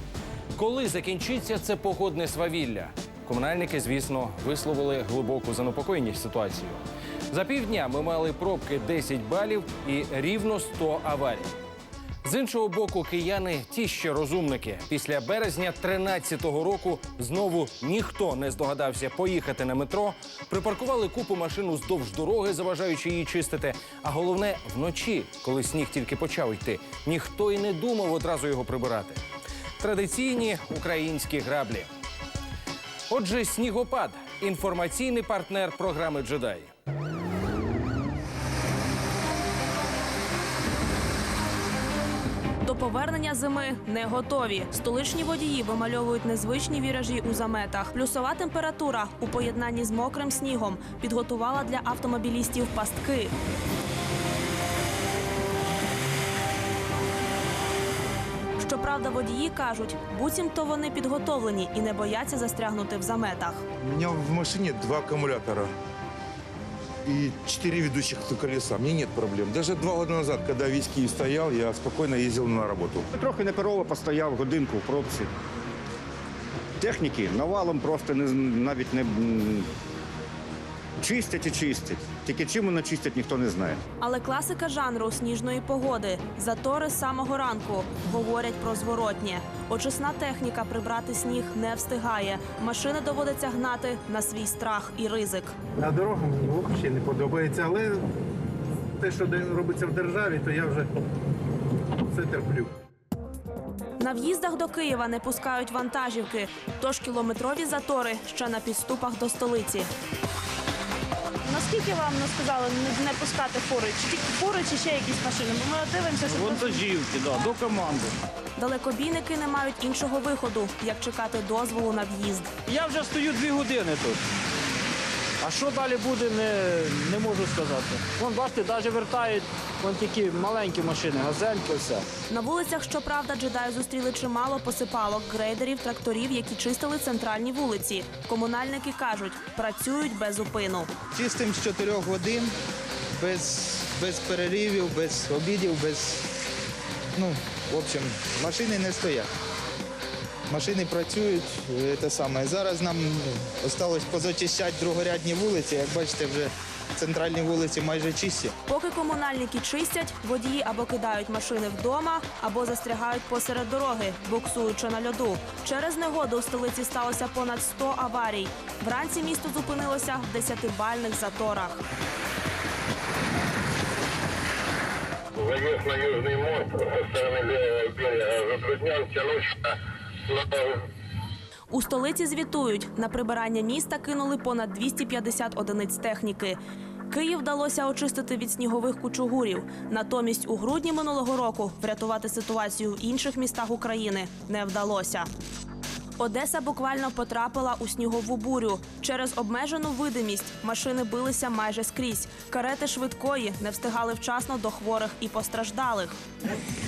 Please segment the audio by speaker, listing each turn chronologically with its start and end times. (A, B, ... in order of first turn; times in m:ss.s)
0:00.5-0:11.6 A
0:12.2-0:29.2 A
0:29.8-0:31.9 A
0:33.1-0:36.7 A
0:42.6-0:53.3 B
0:58.6-1:03.6 B
1:03.8-1:05.7 C
1:07.0-1:13.0 C
1:13.1-1:15.3 D
1:16.8-1:19.7 D
1:21.0-1:23.8 D
1:24.0-1:35.5 B
1:35.8-1:38.0 E
1:39.0-1:40.9 E
1:42.1-1:42.7 E
1:44.0-1:49.9 B
1:51.4-1:56.8 F
1:56.2-1:58.2 G
1:58.6-2:02.5 B
2:02.7-2:04.2 G
2:05.4-2:12.0 G
2:12.3-2:20.9 B
2:21.1-2:22.5 H
2:23.2-2:26.2 H
2:27.1-2:29.3 H
2:30.5-2:38.5 H
2:38.6-2:51.8 B
2:55.3-3:00.8 I
3:01.7-3:06.6 B
3:07.1-3:15.3 B
3:16.2-3:26.2 B